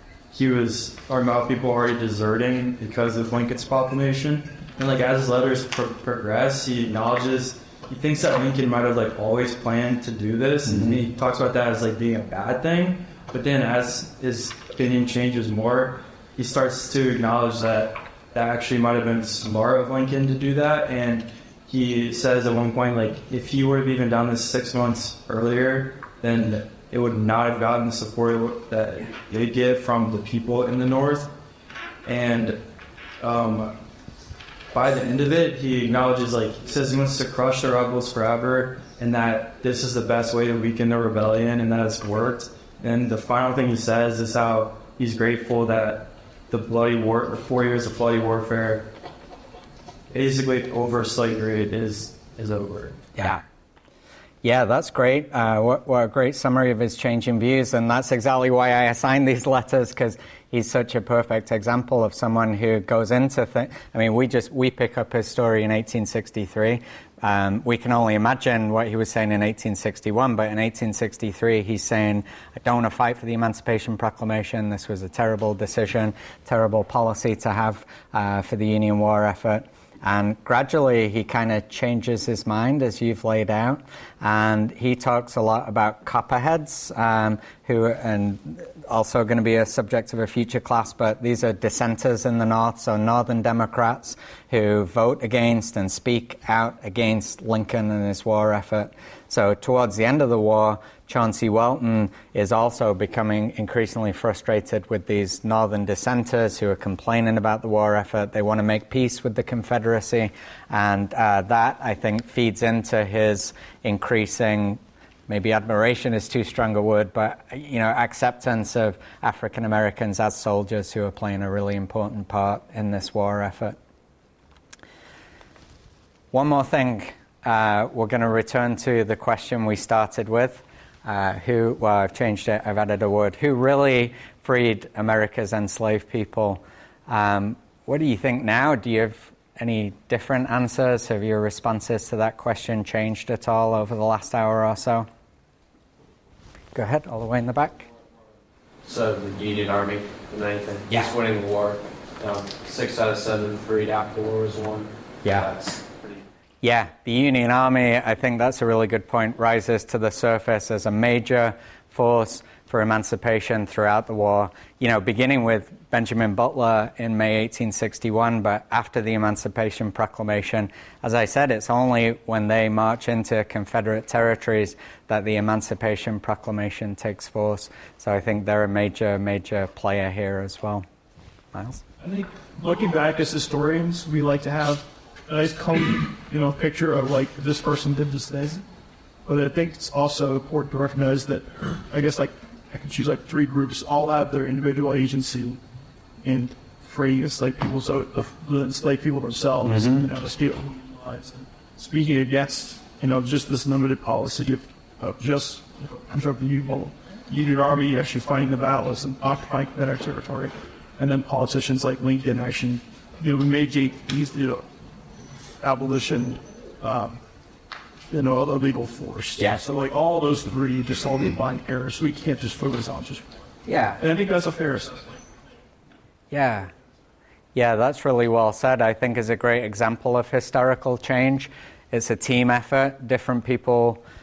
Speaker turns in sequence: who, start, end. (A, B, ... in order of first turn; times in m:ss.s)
0:00.3-0:31.3 A
0:32.0-0:32.6 A
0:33.2-0:33.8 A
0:34.7-0:48.9 A
0:50.1-0:53.0 A
0:53.2-0:53.4 B
0:54.4-2:03.8 B
2:06.3-2:25.1 B
2:26.7-2:27.9 B
2:29.1-2:30.0 C
2:31.4-2:31.6 C
2:33.0-2:34.8 C
2:35.2-2:35.5 B
2:36.6-3:00.9 B
3:01.5-3:01.8 B
3:02.0-3:08.6 D
3:09.2-3:15.6 D
3:16.2-3:34.6 D
3:19.6-3:20.1 B
3:35.6-3:37.2 D
3:38.1-3:43.3 D
3:43.7-3:44.0 B
3:44.0-3:45.2 D
3:46.3-3:46.7 B
3:47.6-3:54.0 B